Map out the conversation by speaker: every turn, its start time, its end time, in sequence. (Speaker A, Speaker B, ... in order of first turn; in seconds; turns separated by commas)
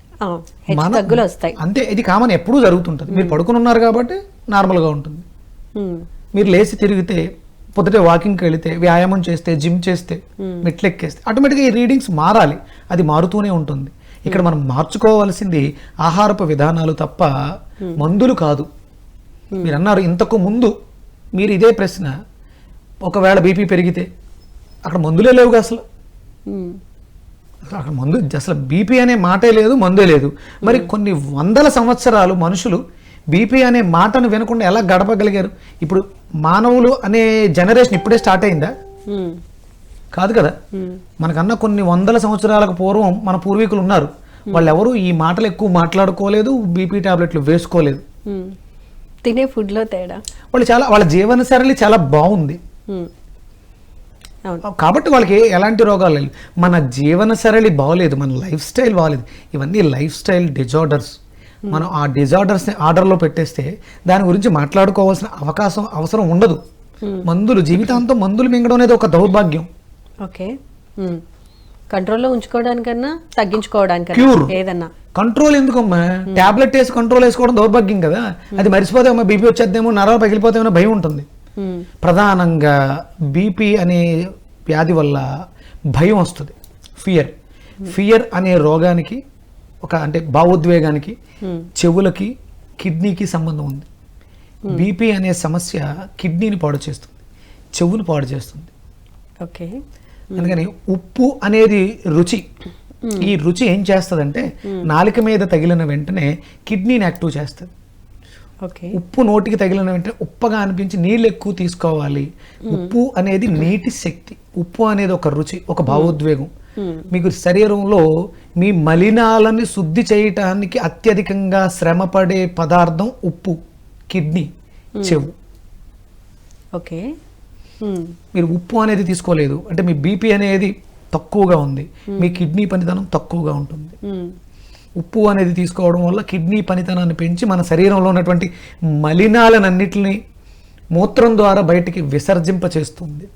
Speaker A: 0.2-1.6, Speaker B: 0.7-5.2, Speaker A: 3.1-3.4, Speaker A: 5.8-6.0, Speaker B: 6.3-17.3, Speaker B: 18.0-18.7, Speaker B: 19.6-20.7, Speaker B: 21.4-22.1, Speaker B: 23.0-24.1, Speaker B: 24.9-25.8, Speaker A: 26.5-26.8, Speaker B: 27.7-32.8, Speaker B: 33.3-38.7, Speaker A: 39.1-39.4, Speaker B: 40.1-40.5, Speaker A: 40.8-41.0, Speaker B: 41.2-48.0, Speaker A: 48.3-48.6, Speaker A: 49.3-50.2, Speaker B: 50.5-52.6, Speaker B: 54.7-61.2, Speaker B: 61.7-66.6, Speaker B: 67.2-69.7, Speaker A: 70.2-71.2, Speaker A: 71.9-74.9, Speaker B: 74.1-74.5, Speaker B: 75.2-81.3, Speaker A: 81.6-81.8, Speaker B: 82.0-82.7, Speaker B: 83.3-84.0, Speaker B: 84.7-85.2, Speaker B: 85.9-87.3, Speaker B: 87.9-89.2, Speaker B: 89.8-91.2, Speaker B: 91.8-93.9, Speaker B: 94.7-97.2, Speaker B: 97.8-98.7, Speaker A: 99.4-99.8, Speaker B: 100.4-102.5, Speaker B: 103.2-107.7, Speaker A: 108.7-109.0, Speaker B: 109.0-116.5, Speaker A: 115.9-116.2, Speaker A: 116.8-117.1, Speaker B: 117.1-118.0, Speaker B: 118.6-123.6, Speaker B: 124.1-124.5, Speaker B: 125.0-125.3, Speaker A: 126.8-127.0, Speaker A: 127.8-128.1, Speaker B: 128.3-133.9, Speaker A: 132.2-132.4, Speaker A: 134.1-134.3, Speaker B: 135.0-138.5, Speaker B: 139.0-140.2, Speaker B: 141.0-143.3